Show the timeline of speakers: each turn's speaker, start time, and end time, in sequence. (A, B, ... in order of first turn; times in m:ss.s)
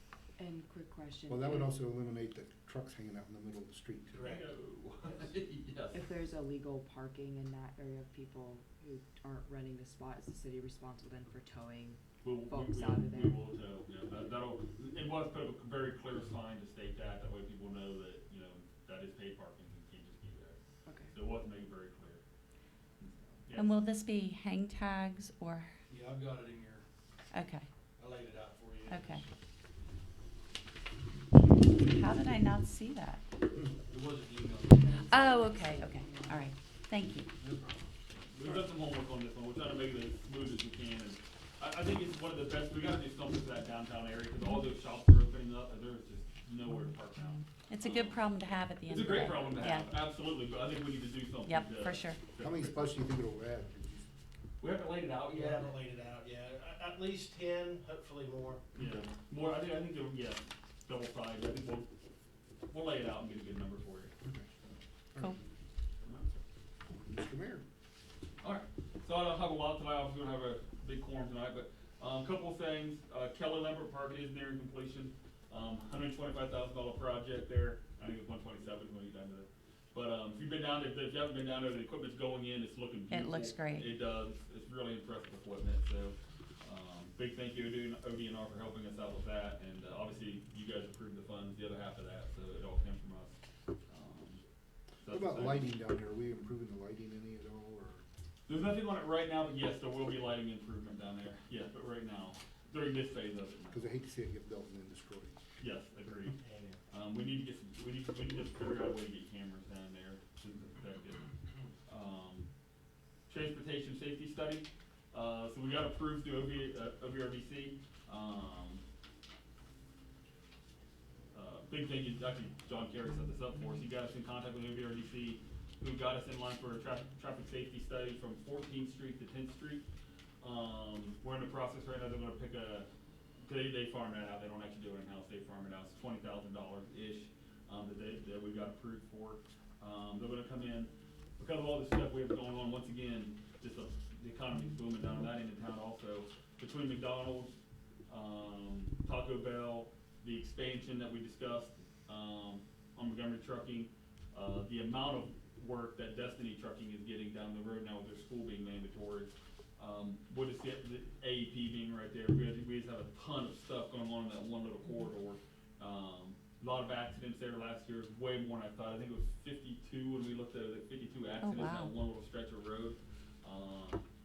0:00.4-0:01.8 A
0:01.3-0:04.4 B
0:04.1-0:04.5 C
0:04.2-0:06.1 D
0:05.9-0:13.5 A
0:12.2-0:20.6 D
0:20.9-0:21.2 A
0:21.1-0:22.2 D
0:23.0-0:23.7 D
0:23.5-0:25.7 E
0:25.9-0:26.8 F
0:27.3-0:27.7 E
0:28.0-0:29.2 F
0:28.9-0:29.2 E
0:31.8-0:33.2 E
0:33.8-0:35.7 F
0:35.1-0:37.3 E
0:35.6-0:36.4 A
0:37.4-0:37.8 F
0:38.3-0:48.2 D
0:47.7-0:49.9 E
0:48.9-0:53.0 D
0:51.5-0:52.2 E
0:52.4-0:54.1 B
0:54.6-0:55.7 D
0:55.3-0:58.7 C
0:58.8-1:01.9 D
1:02.7-1:04.1 D
1:05.1-1:05.4 B
1:06.9-1:07.6 B
1:08.4-1:33.4 D
1:23.1-1:23.9 E
1:33.9-1:34.4 D
1:35.0-1:35.7 D
1:35.1-1:38.0 B
1:38.5-1:43.9 D
1:43.7-1:45.4 B
1:45.6-1:46.4 D
1:46.4-1:46.8 C
1:46.9-1:51.2 D
1:51.9-1:52.5 D
1:53.3-1:58.8 D
2:01.3-2:09.8 D
2:10.4-2:12.9 D
2:13.4-2:27.6 D
2:28.1-2:54.0 D
2:51.4-2:51.9 E